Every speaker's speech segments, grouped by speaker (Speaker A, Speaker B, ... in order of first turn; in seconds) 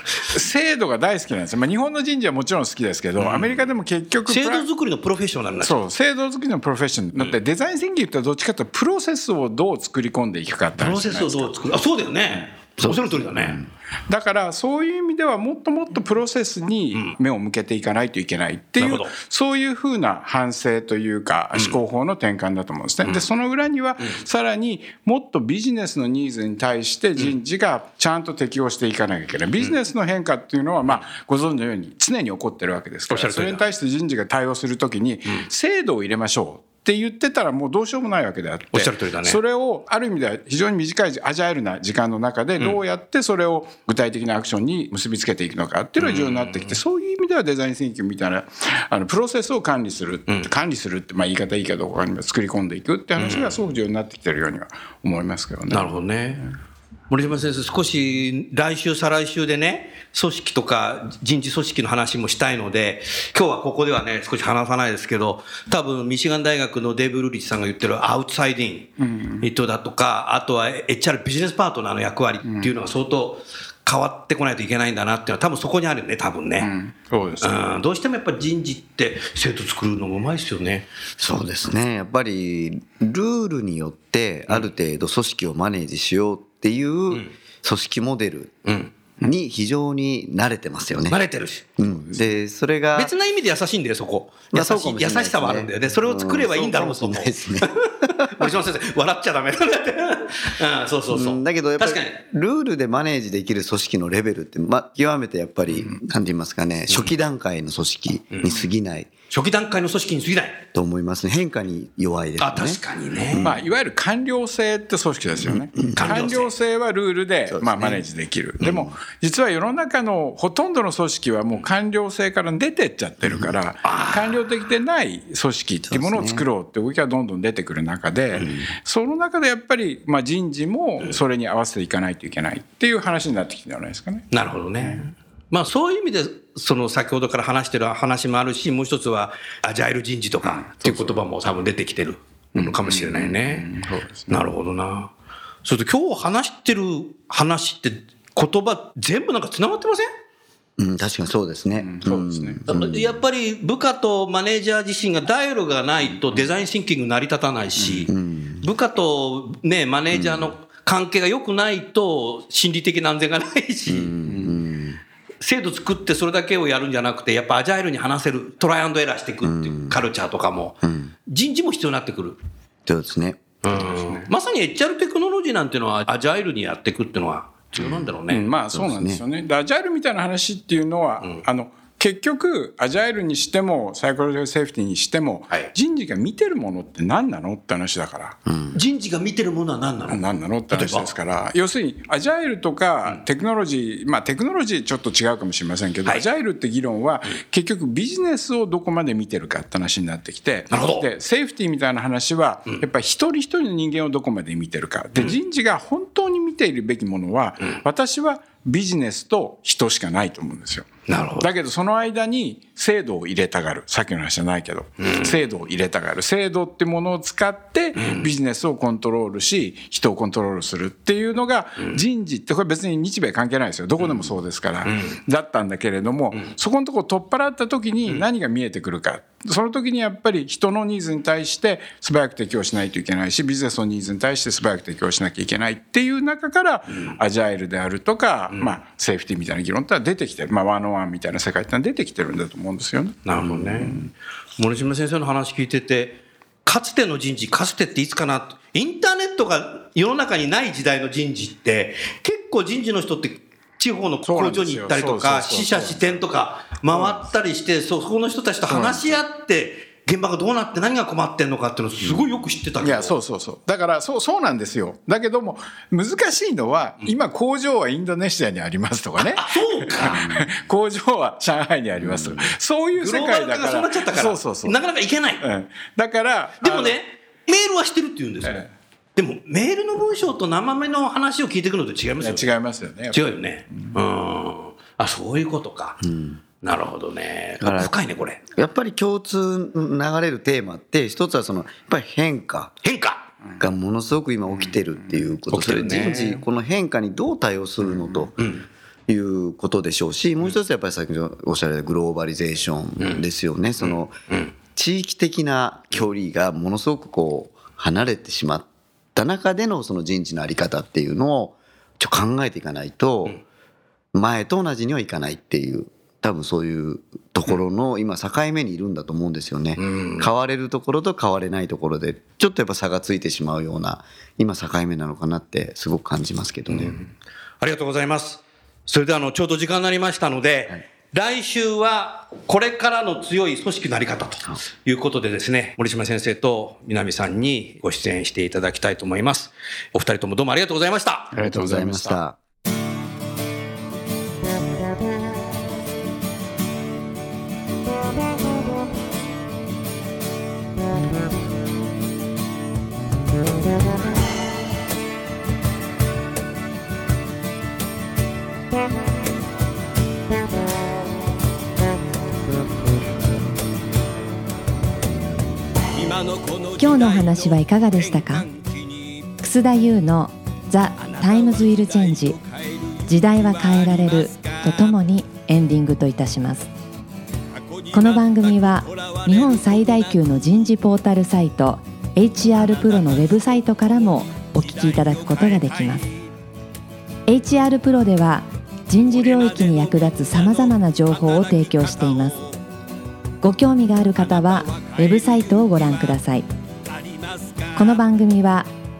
Speaker A: 0.3-4.6, 5.6-11.7, 14.1-55.9, 69.0-69.5, 72.4-72.7, 76.6-77.8, 113.4-134.3, 134.8-135.1, 140.4-141.2, 142.6-144.5, 151.8-152.6, 157.8-158.1, 164.3-164.5, 173.7-174.3, 177.8-188.4, 190.1-244.1, 254.3-256.2, 256.9-257.2, 258.7-259.2, 262.8-274.8, 275.4-277.0, 278.4-278.7, 282.2-283.2, 341.3-342.2
Speaker B: 3.2-3.6, 4.2-5.8, 10.8-13.6, 18.8-19.1, 33.1-33.6, 38.7-39.4, 46.0-46.8, 53.2-53.6, 55.7-56.5, 57.1-68.9, 69.4-76.7, 77.4-80.9, 88.6-88.9, 91.1-92.2, 92.9-102.2, 108.3-108.7, 109.3-110.6, 112.4-113.5, 115.9-116.5, 123.8-124.4, 134.3-143.7, 144.3-145.1, 145.6-150.1, 152.7-158.1, 158.6-164.1, 165.4-172.4, 173.6-178.5, 188.7-191.1, 200.7-201.1, 211.1-211.5, 215.0-215.4, 218.0-218.3, 224.8-225.2, 236.9-237.2, 238.5-238.8, 243.2-244.1, 244.6-263.1, 269.2-270.4, 272.9-275.4, 276.6-282.5, 283.1-286.0, 286.6-288.4, 292.8-293.3, 295.5-296.4, 298.4-298.6, 303.8-304.5, 319.8-320.3, 326.7-327.1, 327.6-341.3
Speaker C: 81.2-88.5, 89.2-91.2, 91.8-93.1, 94.5-98.6, 101.1-109.1, 110.7-113.6, 115.4-116.1, 117.5-118.0, 125.9-126.5, 150.8-153.0, 158.1-158.7, 160.1-160.5, 163.9-165.0, 169.4-170.0, 170.8-171.1, 172.8-173.4, 178.7-179.2, 188.5-188.8, 272.0-272.5, 286.0-286.4, 287.6-287.9, 288.5-292.7, 293.6-298.5, 299.1-304.1, 304.7-313.4, 314.1-327.0, 341.3-342.4
Speaker D: 366.7-368.5, 369.4-372.4, 373.0-376.7, 377.9-386.1, 387.3-392.4, 393.4-396.5, 397.7-398.7